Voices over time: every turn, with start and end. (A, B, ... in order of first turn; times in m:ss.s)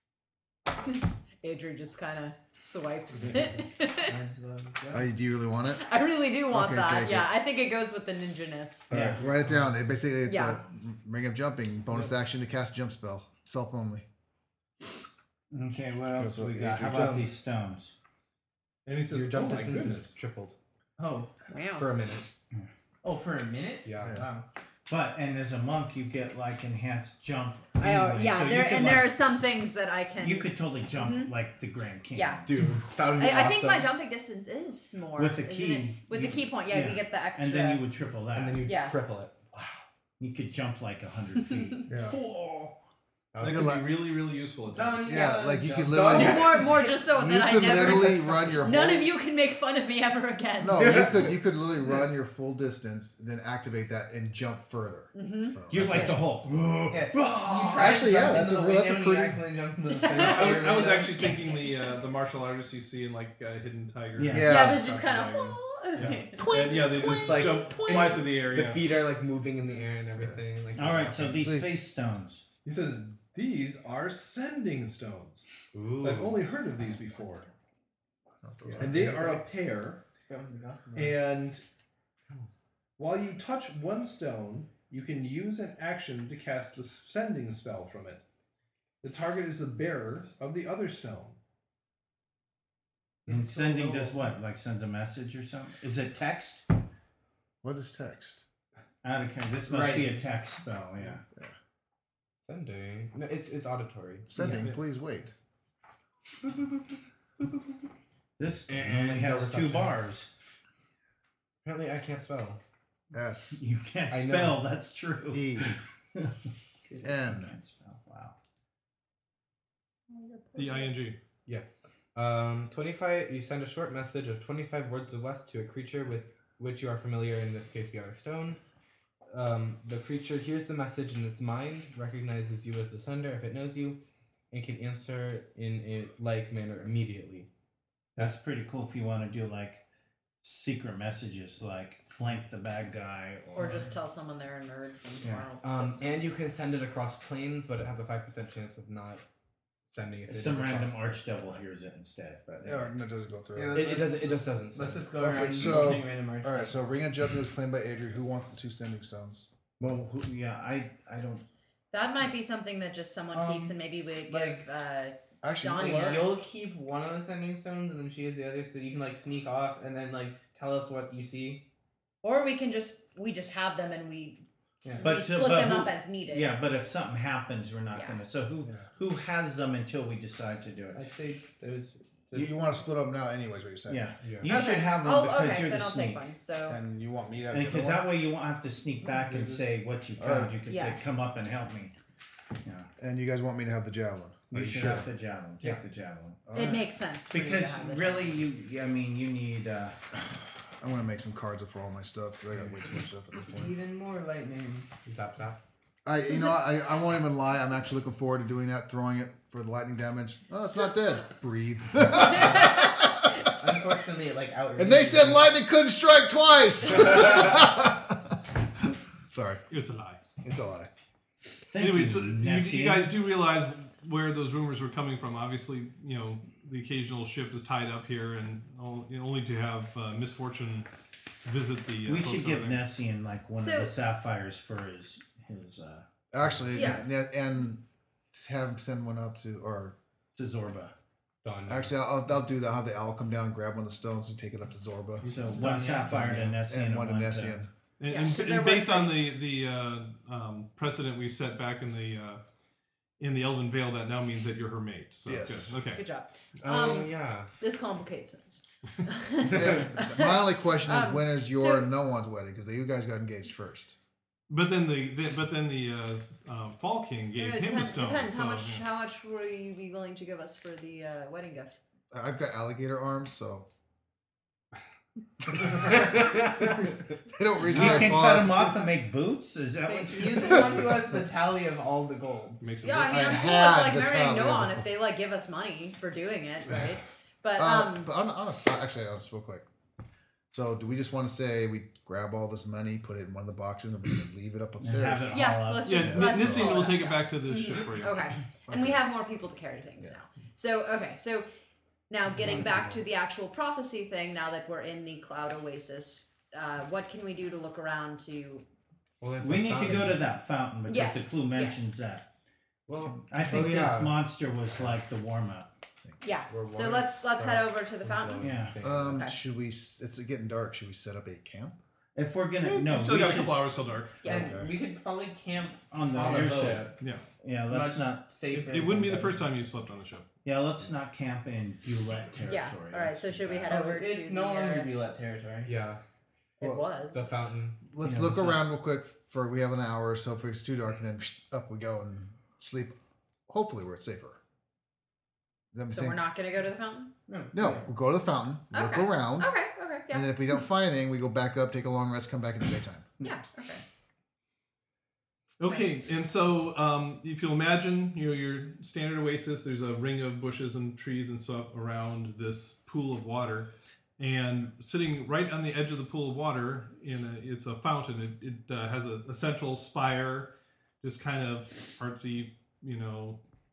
0:00.9-0:04.2 A
0:04.0-0:05.1 B
0:04.9-0:05.9 C
0:05.7-0:09.0 A
0:06.5-0:07.3 C
0:08.9-0:14.0 C
0:08.9-0:09.3 D
0:10.2-0:10.6 A
0:15.5-0:18.0 D
0:16.1-0:17.1 C
0:16.9-0:17.3 E
0:18.9-0:20.2 F
0:19.1-0:20.6 E
0:21.0-0:21.3 B
0:21.5-0:21.8 A
0:21.8-0:22.3 E
0:23.0-0:24.4 B
0:23.8-0:24.2 E
0:24.9-0:29.2 D
0:27.8-0:31.3 A
0:30.2-0:32.6 D
0:32.1-0:32.4 A
0:32.4-0:33.9 E
0:33.1-0:37.8 A
0:35.2-0:38.6 D
0:38.4-0:39.8 E
0:38.6-0:39.0 A
0:40.2-0:42.8 D
0:41.9-0:42.2 C
0:43.3-0:43.8 E
0:43.4-0:45.3 F
0:43.5-0:43.8 C
0:44.7-0:46.5 B
0:45.1-0:49.1 C
0:46.0-0:46.8 E
0:46.0-0:50.9 A
0:50.6-0:56.2 C
0:50.8-0:51.3 E
0:55.1-0:56.1 A
0:55.7-0:57.9 D
0:56.9-1:01.1 B
0:57.7-0:59.4 C
0:59.9-1:02.0 A
1:00.1-1:05.6 F
1:04.2-1:04.6 D
1:04.2-1:04.8 C
1:04.4-1:07.6 A
1:06.0-1:06.2 C
1:06.4-1:08.9 F
1:06.4-1:11.4 E
1:07.0-1:08.0 B
1:10.8-1:12.5 D
1:11.4-1:11.7 C
1:12.6-1:15.5 F
1:15.7-1:16.4 E
1:16.0-1:17.5 F
1:18.4-1:19.1 C
1:18.7-1:19.2 E
1:18.8-1:19.4 B
1:18.8-1:20.0 F
1:20.3-1:21.2 B
1:21.0-1:21.6 F
1:23.0-1:28.2 F
1:29.0-1:31.4 F
1:33.3-1:36.7 D
1:33.3-1:33.8 B
1:37.6-1:38.4 C
1:39.0-1:41.2 D
1:39.7-1:40.2 B
1:42.4-1:44.3 E
1:44.3-1:45.3 C
1:44.4-1:44.8 F
1:48.4-1:50.3 D
1:48.7-1:50.0 E
1:51.6-1:52.6 E
1:53.1-1:53.6 C
1:53.6-1:56.3 D
1:54.1-1:54.6 E
1:55.3-1:55.8 C
1:57.0-1:57.5 C
1:57.0-1:58.4 D
2:00.6-2:01.2 F
2:01.5-2:08.6 E
2:09.3-2:17.5 E
2:18.2-2:19.8 D
2:20.4-2:23.9 D
2:23.6-2:26.3 A
2:25.2-2:25.5 D
2:25.8-2:29.2 E
2:29.9-2:31.2 E
2:30.3-2:33.0 D
2:32.6-2:34.0 C
2:33.6-2:36.9 B
2:33.7-2:36.0 E
2:35.2-2:39.5 C
2:39.8-2:41.4 D
2:41.9-2:46.3 A
2:43.3-2:44.7 B
2:45.4-2:46.3 C
2:45.8-2:51.6 B
2:52.2-2:56.6 A
2:55.0-3:01.1 D
2:57.9-2:58.2 A
2:58.6-2:58.9 C
3:00.9-3:02.6 B
3:02.3-3:04.1 C
3:03.9-3:06.3 D
3:04.2-3:04.5 E
3:04.4-3:06.8 A
3:06.7-3:08.1 C
3:07.5-3:11.9 D
3:09.3-3:09.7 B
3:10.2-3:10.6 C
3:10.7-3:11.0 A
3:12.6-3:12.9 D
3:13.0-3:15.0 C
3:14.5-3:20.0 D
3:14.6-3:15.0 E
3:16.5-3:16.9 C
3:16.6-3:18.4 A
3:20.8-3:23.8 C
3:23.4-3:25.0 B
3:25.0-3:25.6 E
3:26.0-3:33.3 C
3:33.4-3:35.5 B
3:34.8-3:39.6 C
3:39.7-3:40.2 F
3:40.4-3:40.9 C
3:41.7-3:43.1 D
3:41.8-3:52.8 F
3:52.1-3:56.5 D
3:53.6-3:53.9 A
3:56.3-3:57.8 C
3:56.7-3:57.0 A
3:58.3-4:00.0 C
4:00.4-4:01.0 D
4:01.4-4:01.9 E
4:01.7-4:05.3 C
4:05.2-4:07.6 D
4:05.6-4:06.2 B
4:05.7-4:06.6 E
4:06.7-4:07.7 C
4:08.0-4:12.4 F
4:08.1-4:09.2 A
4:13.2-4:16.0 F
4:15.3-4:15.8 C
4:15.9-4:21.9 A
4:16.6-4:17.5 E
4:19.5-4:24.0 C
4:24.5-4:28.8 F
4:27.4-4:31.8 A
4:32.1-4:33.7 C
4:35.5-4:36.7 C
4:37.3-4:38.8 C
4:37.6-4:41.1 D
4:39.9-4:42.7 B
4:42.6-4:43.5 F
4:42.8-4:48.1 A
4:43.0-4:44.9 C
4:47.6-4:49.7 C
4:50.5-4:56.7 C
4:54.8-4:56.7 D
4:55.3-5:01.5 A
4:55.9-4:58.4 F
4:58.7-4:59.0 C
5:02.1-5:08.6 A
5:02.4-5:03.0 E
5:09.2-5:10.2 E
5:09.4-5:12.3 D
5:10.9-5:11.9 A
5:12.9-5:14.1 E
5:13.3-5:15.7 D
5:16.2-5:18.5 A
5:16.5-5:19.2 E
5:18.4-5:18.8 D
5:18.8-5:21.8 C
5:19.1-5:19.4 A
5:22.2-5:23.7 D
5:22.6-5:24.2 F
5:24.2-5:27.0 B
5:24.2-5:24.7 C
5:25.9-5:28.3 D
5:27.0-5:27.2 F
5:27.7-5:29.5 B
5:28.5-5:30.3 F
5:30.4-5:33.8 D
5:32.4-5:34.9 A
5:33.7-5:35.8 B
5:35.6-5:36.0 E
5:36.6-5:37.3 A
5:37.2-5:37.5 B
5:37.2-5:37.9 E
5:37.9-5:43.0 C
5:38.0-5:38.6 D
5:43.5-5:44.4 C
5:45.7-5:46.2 C
5:45.9-5:47.1 A
5:47.3-5:47.9 B
5:47.5-5:49.5 C
5:48.7-5:50.4 A
5:50.1-5:53.1 C
5:53.2-5:53.8 A
5:55.6-6:13.4 F